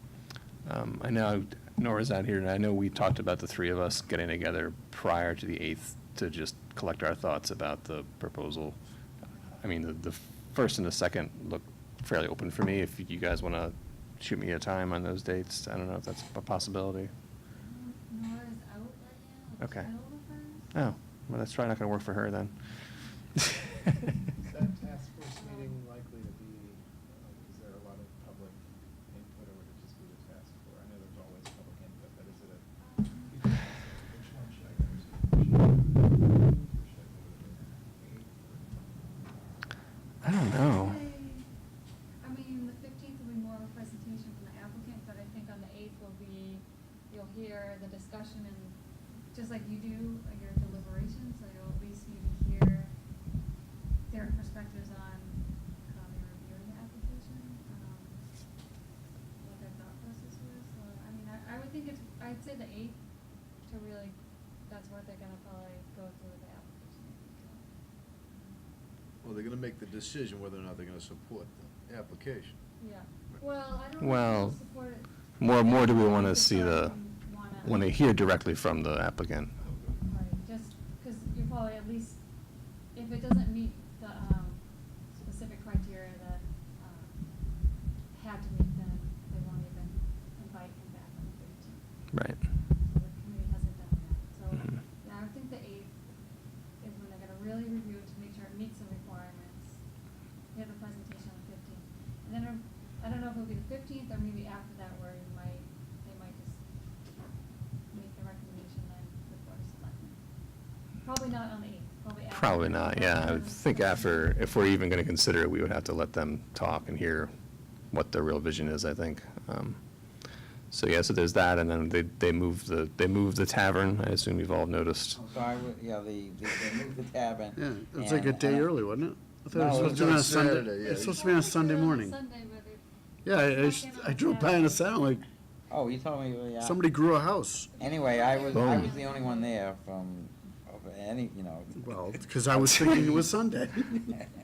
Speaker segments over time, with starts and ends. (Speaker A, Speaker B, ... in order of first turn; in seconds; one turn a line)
Speaker A: 0.6-8.8
Speaker A: 9.6-17.1
Speaker B: 17.6-20.7
Speaker A: 19.6-19.9
Speaker A: 20.7-22.6
Speaker C: 24.4-32.7
Speaker B: 25.4-25.8
Speaker B: 32.8-33.4
Speaker C: 33.3-39.2
Speaker A: 40.2-41.0
Speaker B: 40.6-41.5
Speaker B: 42.2-48.8
Speaker B: 49.3-52.9
Speaker B: 54.1-58.2
Speaker B: 59.4-63.0
Speaker B: 63.6-67.7
Speaker D: 69.2-72.6
Speaker B: 72.8-77.9
Speaker A: 74.0-74.7
Speaker A: 75.4-77.0
Speaker A: 77.6-79.5
Speaker B: 80.0-82.2
Speaker B: 82.9-92.0
Speaker A: 92.1-92.5
Speaker B: 92.6-96.0
Speaker B: 96.8-99.8
Speaker B: 100.5-106.6
Speaker B: 107.9-110.2
Speaker B: 111.0-114.3
Speaker A: 112.3-117.3
Speaker A: 117.9-125.2
Speaker E: 125.3-128.7
Speaker F: 127.6-132.2
Speaker E: 129.5-130.1
Speaker D: 129.5-131.2
Speaker B: 130.8-135.1
Speaker F: 133.2-135.2
Speaker E: 135.7-136.8
Speaker F: 136.6-137.8
Speaker B: 137.7-139.6
Speaker E: 137.8-143.2
Speaker A: 138.5-138.9
Speaker F: 141.8-144.2